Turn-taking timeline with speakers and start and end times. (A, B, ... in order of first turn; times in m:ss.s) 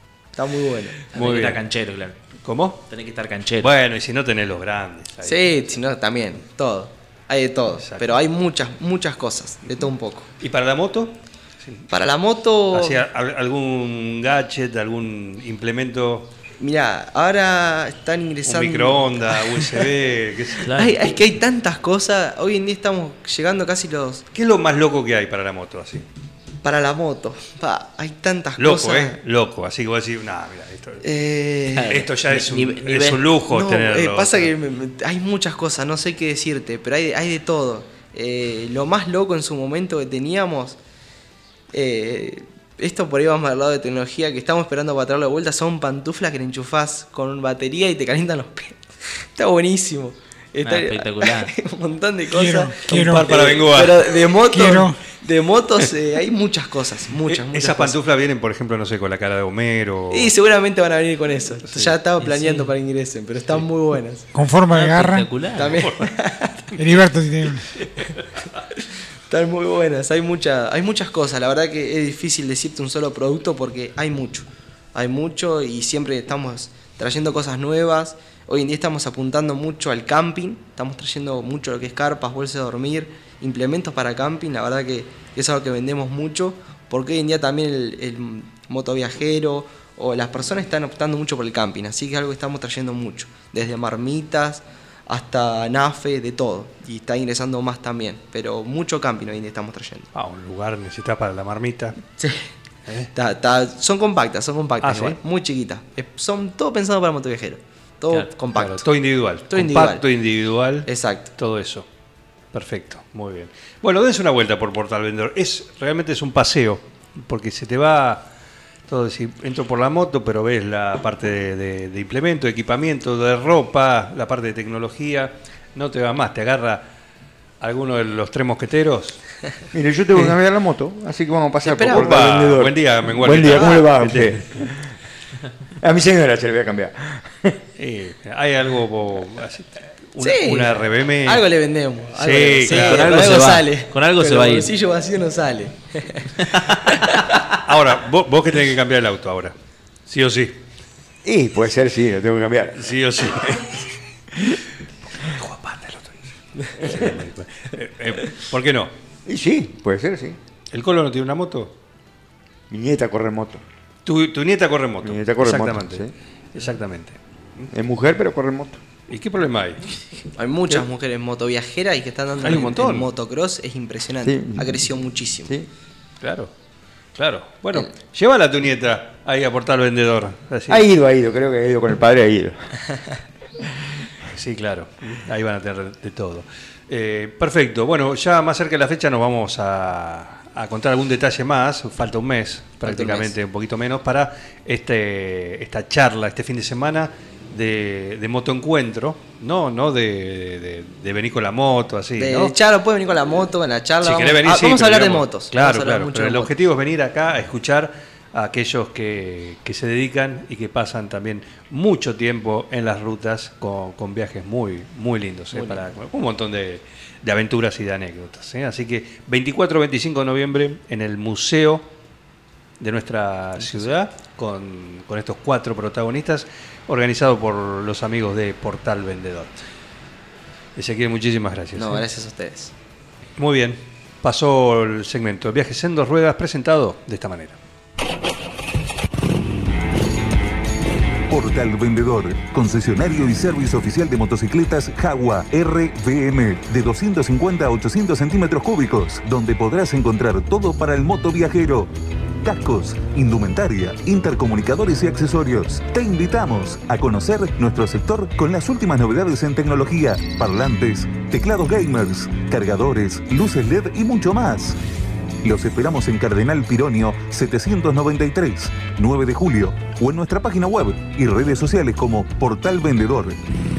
0:00.4-0:01.0 A
0:01.1-0:02.1 B
0:01.1-0:01.6 C
0:02.4-0:02.8 C
0:02.9-0:03.7 B
0:03.6-0:05.5 C
0:05.2-0:10.3 A
0:07.8-0:08.1 C
0:10.4-0:11.8 C
0:11.9-0:13.0 A
0:12.7-0:16.3 C
0:16.6-0:19.9 A
0:18.4-0:20.8 C
0:20.6-0:20.9 B
0:20.7-0:24.2 A
0:24.3-0:26.0 C
0:26.6-0:29.2 A
0:28.6-0:31.0 C
0:31.0-0:32.0 A
0:31.7-0:33.2 B
0:31.9-0:34.5 C
0:33.5-0:40.8 A
0:41.7-0:58.0 A
0:50.6-0:51.5 B
0:52.3-0:53.4 D
0:52.9-0:54.3 C
0:54.5-0:55.0 D
0:57.2-1:00.3 C
1:00.1-1:04.3 A
1:02.2-1:02.7 B
1:04.3-1:05.3 D
1:04.7-1:05.8 B
1:05.6-1:06.7 A
1:05.8-1:06.0 C
1:06.8-1:07.7 D
1:07.8-1:08.4 C
1:09.3-1:40.1 A
1:40.1-1:42.0 C
1:42.2-1:42.5 A
1:43.1-1:48.9 A
1:44.8-1:45.2 C
1:48.5-1:51.8 C
1:49.5-1:50.0 A
1:50.8-1:51.3 A
1:52.5-1:58.3 C
1:58.9-2:06.8 C
2:07.6-2:09.2 C
2:09.7-2:14.8 E
2:11.6-2:12.3 A
2:11.9-2:14.7 C
2:13.4-2:13.8 A
2:15.8-2:17.6 E
2:17.8-2:21.4 C
2:20.2-2:27.2 A
2:22.1-2:23.4 C
2:22.7-2:24.7 B
2:27.6-2:29.5 C
2:30.1-2:30.6 C
2:31.2-2:32.8 E
2:32.8-2:33.8 C
2:35.2-2:38.9 C
2:39.2-2:40.4 E
2:40.7-2:41.7 C
2:42.7-2:43.6 E
2:44.0-2:47.7 C
2:45.0-2:46.1 E
2:47.7-2:48.8 E
2:49.1-2:49.8 C
2:50.4-2:55.5 A
2:52.4-2:53.1 C
2:54.2-2:54.8 E
2:56.2-2:56.5 C
2:57.1-3:00.8 C
3:00.7-3:02.7 E
3:04.3-3:22.5 C
3:12.8-3:13.3 A
3:22.2-3:26.5 A
3:24.0-3:41.8 C
3:35.5-3:35.8 A
3:42.8-3:49.5 C
3:43.6-3:43.9 A
3:50.8-3:52.0 C
3:51.7-3:52.7 A
3:53.4-3:57.6 C
4:01.3-4:11.9 F
4:12.4-4:24.8 F
4:25.4-4:33.4 F